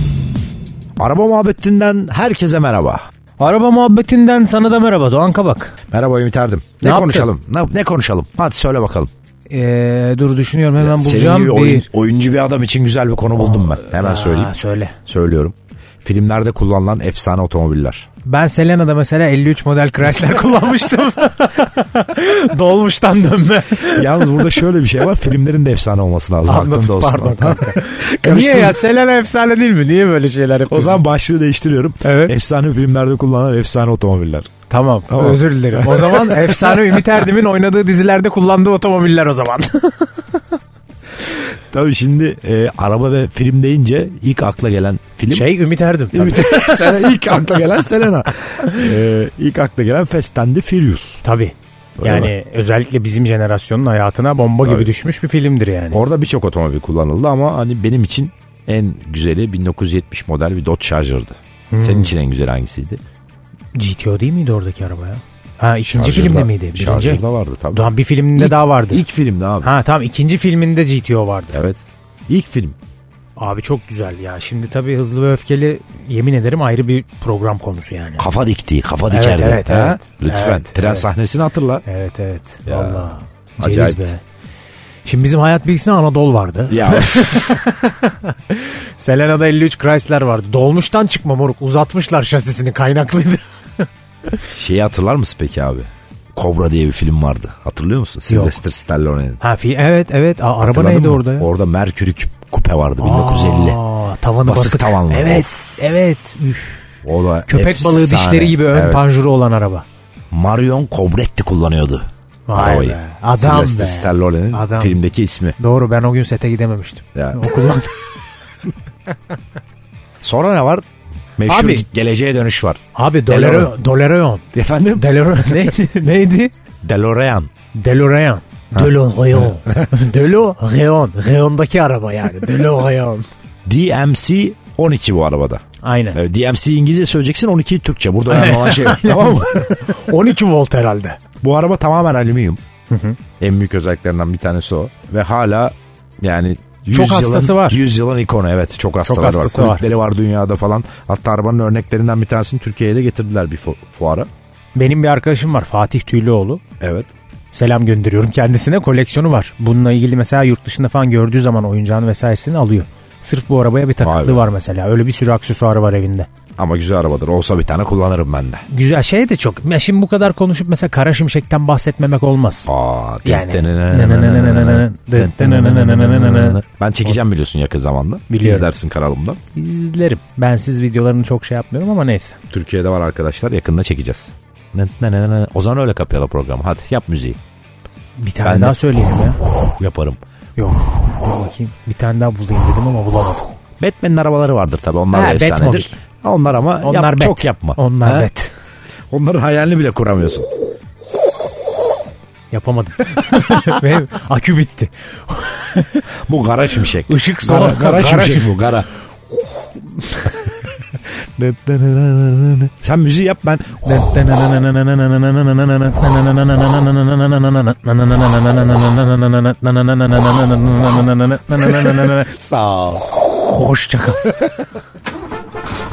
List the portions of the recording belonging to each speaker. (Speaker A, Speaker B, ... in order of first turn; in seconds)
Speaker A: 1.0-3.0, 5.9-9.1, 10.8-14.5, 15.1-18.1, 23.9-28.8, 30.7-34.5, 35.1-37.2, 41.7-45.5, 46.1-51.2, 52.0-52.3, 54.6-54.9, 55.9-63.0, 65.9-69.7, 71.5-72.8, 78.2-81.8, 82.7-84.1, 86.7-87.5, 94.5-99.4, 100.6-103.8, 104.5-105.8, 107.0-109.2, 110.3-115.5, 117.1-117.4, 120.2-120.9, 121.4-123.7, 124.5-125.1, 126.8-127.5, 128.7-129.9, 133.7-135.6, 136.1-139.8, 141.4-142.6, 143.4-154.3, 156.8-157.1, 164.0-164.5, 166.6-168.7, 172.7-179.4, 182.5-187.4, 188.4-188.8, 189.7-190.2, 193.8-198.3, 199.1-200.5, 206.2-208.9, 210.3-214.1, 221.6-223.0
Speaker B: 3.4-5.7, 6.8-7.3, 9.5-11.9, 13.3-15.0, 18.2-24.7, 26.5-31.0, 32.0-32.3, 34.7-40.4, 45.3-47.2, 51.2-56.0, 61.7-62.1, 63.8-69.0, 69.6-71.6, 73.4-78.3, 79.1-81.1, 81.8-84.2, 85.0-94.4, 98.3-98.6, 99.4-101.5, 103.0-106.8, 107.5-109.9, 112.5-115.0, 115.6-118.0, 121.5-121.9, 122.9-124.5, 125.0-126.5, 127.7-133.3, 135.8-136.2, 138.3-141.2, 142.9-143.2, 146.9-147.8, 149.0-149.8, 154.8-156.6, 157.5-166.3, 168.7-172.7, 173.2-177.2, 178.3-178.7, 179.5-182.4, 188.2-189.4, 190.6-193.6, 195.1-196.0, 196.8-198.5, 202.5-206.1, 207.0-210.8, 213.8-222.3, 223.5-224.5